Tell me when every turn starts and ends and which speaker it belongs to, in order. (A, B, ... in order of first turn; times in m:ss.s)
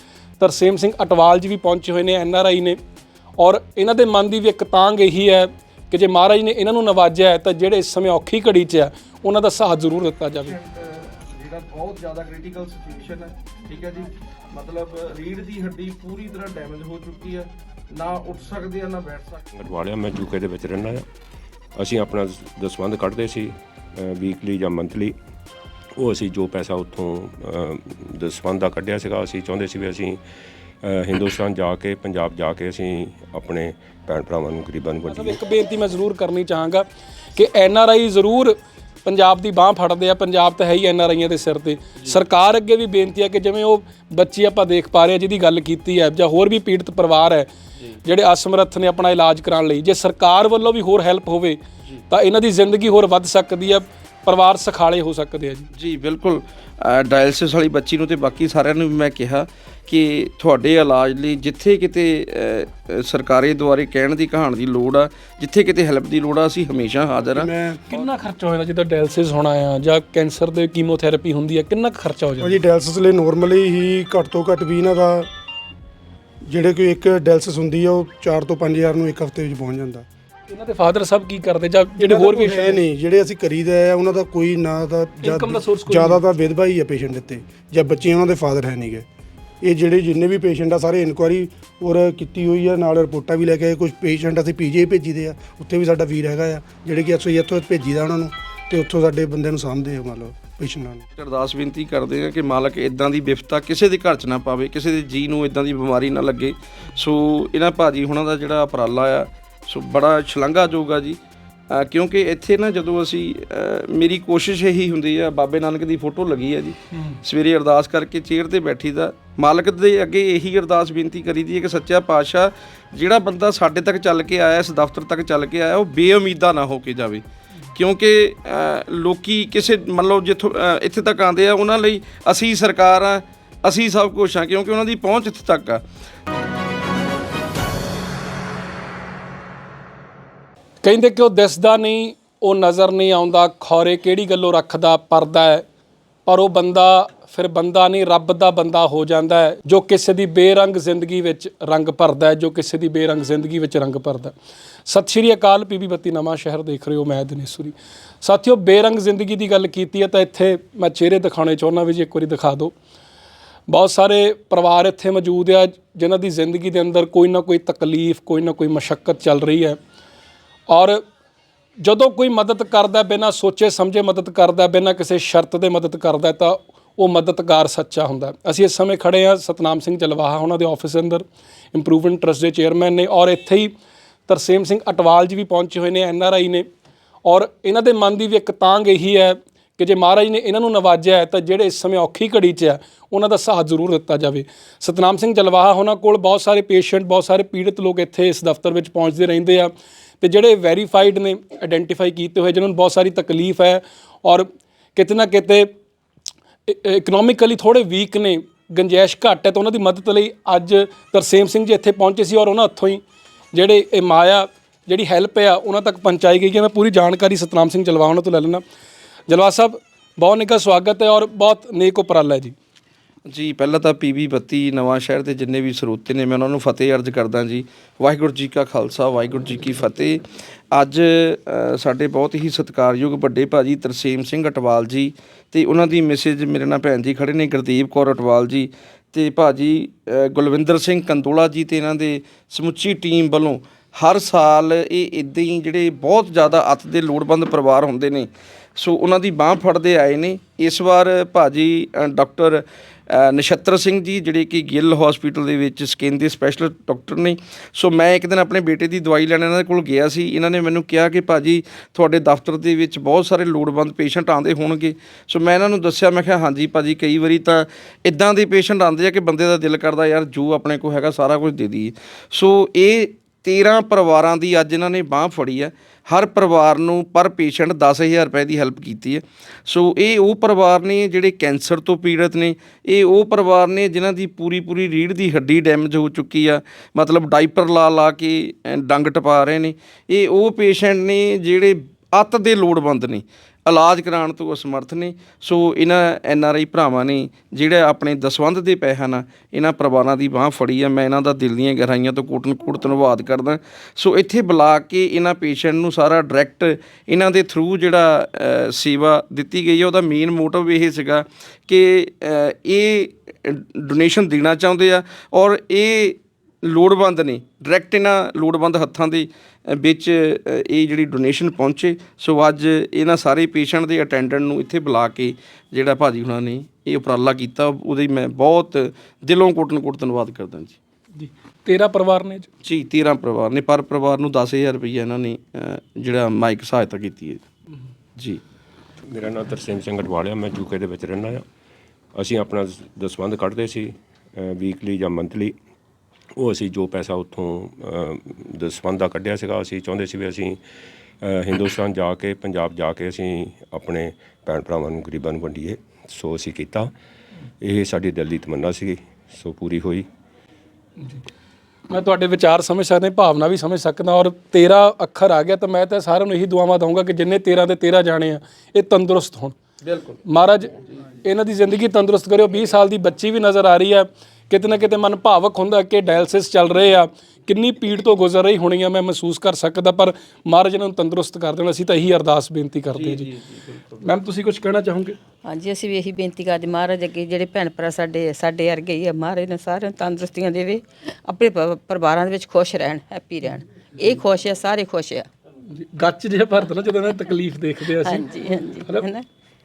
0:00.4-0:02.8 A
0:03.4-0:10.5 A
0:10.4-0:19.4 B
0:19.5-0:21.1 C
0:21.8-0:25.1 C
0:26.0-0:30.2 C
0:30.8-0:35.4 C
0:35.1-0:47.5 A
0:48.0-0:55.7 A
0:55.7-1:08.1 B
1:07.3-1:07.8 D
1:07.9-1:12.6 A
1:12.4-1:15.3 D
1:16.5-1:20.0 D
1:20.5-1:22.8 A
1:22.0-1:29.0 D
1:25.2-1:26.2 A
1:29.6-1:41.0 D
1:41.2-1:51.2 B
1:51.7-2:15.8 B
1:56.9-1:57.2 A
2:20.8-2:25.6 A
2:26.2-2:34.3 A
2:34.9-2:42.7 A
2:43.7-2:49.8 A
2:50.7-2:51.0 A
2:51.8-3:03.7 A
3:04.3-3:06.6 A
3:07.2-3:25.7 A
3:26.7-3:33.0 A
3:33.5-3:38.6 A
3:39.3-3:42.5 A
3:43.3-5:30.8 B
5:31.2-5:32.5 A
5:32.6-5:37.4 B
5:39.1-5:41.4 C
5:42.1-5:45.5 C
5:46.4-5:50.6 C
5:51.2-5:56.9 C
5:57.6-6:00.1 C
6:01.9-6:09.5 A
6:09.8-6:10.1 B
6:10.2-6:10.7 A
6:11.2-6:23.3 A
6:22.9-6:24.0 B
6:24.0-6:25.2 A
6:25.4-6:35.3 E
6:35.7-6:38.2 A
6:38.0-6:39.2 E